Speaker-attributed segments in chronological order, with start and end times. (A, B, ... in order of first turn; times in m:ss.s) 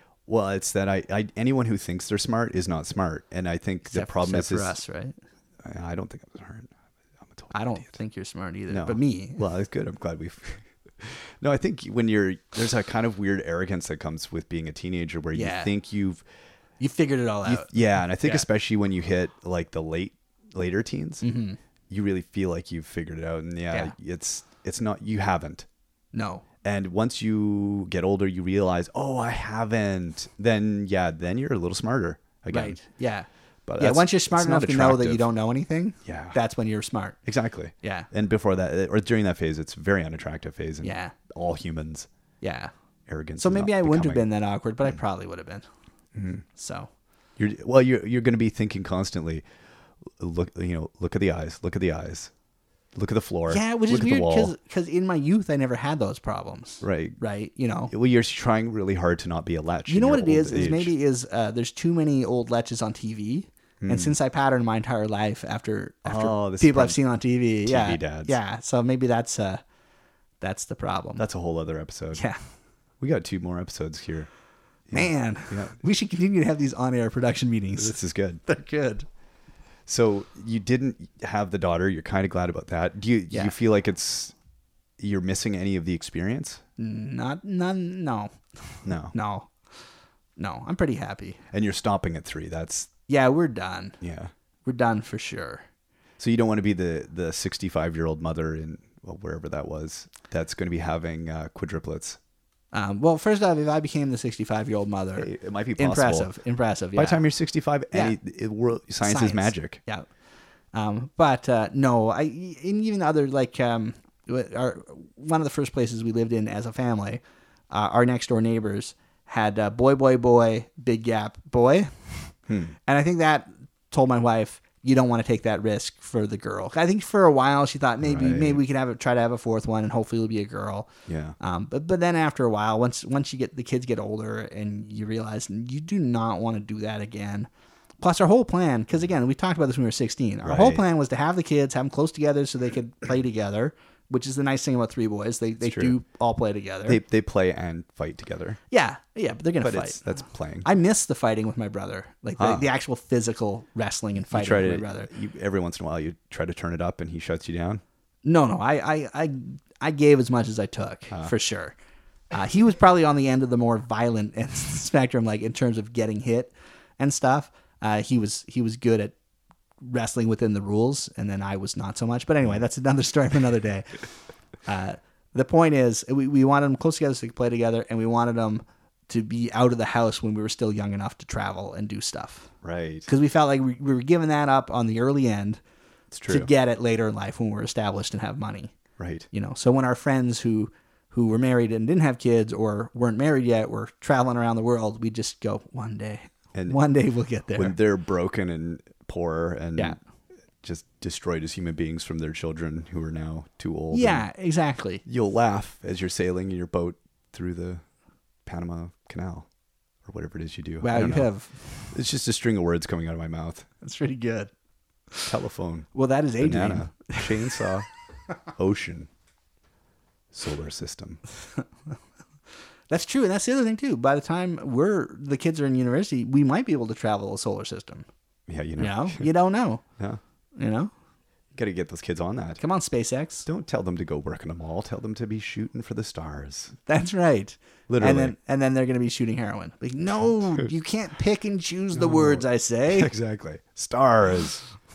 0:00.3-0:04.8 A
0:03.8-0:05.2 B
0:05.6-0:06.7 A
0:07.2-0:07.9 A
0:07.5-0:09.4 B
0:08.7-0:16.2 A
0:15.3-0:15.7 B
0:16.8-0:18.4 B
0:17.4-0:21.2 A
0:21.2-0:21.6 B
0:21.9-0:25.6 A
0:26.1-0:26.4 B
0:26.6-0:32.8 A
0:32.5-0:33.3 B
0:33.7-0:35.3 A
0:33.8-0:37.2 B
0:36.0-0:36.4 A
0:37.2-0:42.1 A
0:37.8-0:38.1 B
0:40.8-0:41.2 B
0:42.4-0:42.7 B
0:43.1-0:44.2 A
0:43.4-0:45.6 B
0:46.1-0:46.4 A
0:46.5-0:46.9 B
0:47.4-0:49.4 A
0:50.2-0:52.3 A
0:52.9-0:54.5 A
0:53.5-0:57.9 B
0:56.8-0:57.2 A
0:57.9-1:00.9 A
0:59.9-1:09.6 B
1:03.8-1:04.2 A
1:06.0-1:07.0 A
1:07.6-1:08.4 A
1:10.4-1:11.2 B
1:11.2-1:12.2 A
1:12.1-1:12.4 B
1:13.0-1:14.3 A
1:14.9-1:15.8 A
1:14.9-1:19.1 B
1:17.8-1:18.4 A
1:19.9-1:24.3 A
1:25.0-1:26.6 A
1:26.8-1:29.5 B
1:28.8-1:29.1 A
1:30.4-1:31.4 B
1:31.5-1:32.9 A
1:33.1-1:34.0 B
1:34.0-1:34.3 A
1:34.6-1:35.6 B
1:36.2-1:42.2 A
1:42.7-1:47.2 B
1:45.2-1:46.3 A
1:46.9-1:49.8 A
1:47.9-1:48.2 B
1:49.0-1:50.1 B
1:50.7-2:02.3 B
2:02.5-2:02.8 A
2:02.8-2:27.0 B
2:08.0-2:08.6 A
2:11.1-2:11.4 A
2:20.4-2:20.8 A
2:25.6-2:25.9 A
2:26.8-2:28.6 A
2:28.7-2:30.0 B
2:29.6-2:30.7 A
2:30.6-2:35.1 B
2:32.4-2:32.7 A
2:34.3-2:37.8 A
2:38.2-2:41.8 B
2:42.3-2:49.1 B
2:49.8-2:54.0 B
2:54.6-3:02.5 B
3:02.6-3:03.1 A
3:03.1-3:05.6 B
3:06.1-3:06.5 A
3:06.3-3:08.7 B
3:09.0-3:09.3 A
3:09.3-3:17.8 B
3:17.6-3:20.0 A
3:20.6-3:24.3 A
3:23.9-3:25.0 B
3:25.0-3:27.8 A
3:28.4-3:29.5 A
3:30.0-3:31.3 A
3:30.8-3:31.7 B
3:31.9-3:33.7 A
3:33.8-3:34.5 B
3:35.2-3:35.9 A
3:35.9-3:37.7 B
3:36.4-3:37.9 A
3:38.5-3:39.1 A
3:40.3-3:41.2 A
3:42.9-3:48.0 B
3:48.5-3:49.3 A
3:48.8-3:49.8 B
3:50.6-3:50.9 B
3:51.5-3:52.6 A
3:52.6-3:53.4 B
3:53.4-3:56.8 A
3:56.9-4:03.1 B
3:57.9-3:58.3 A
4:01.9-4:04.6 A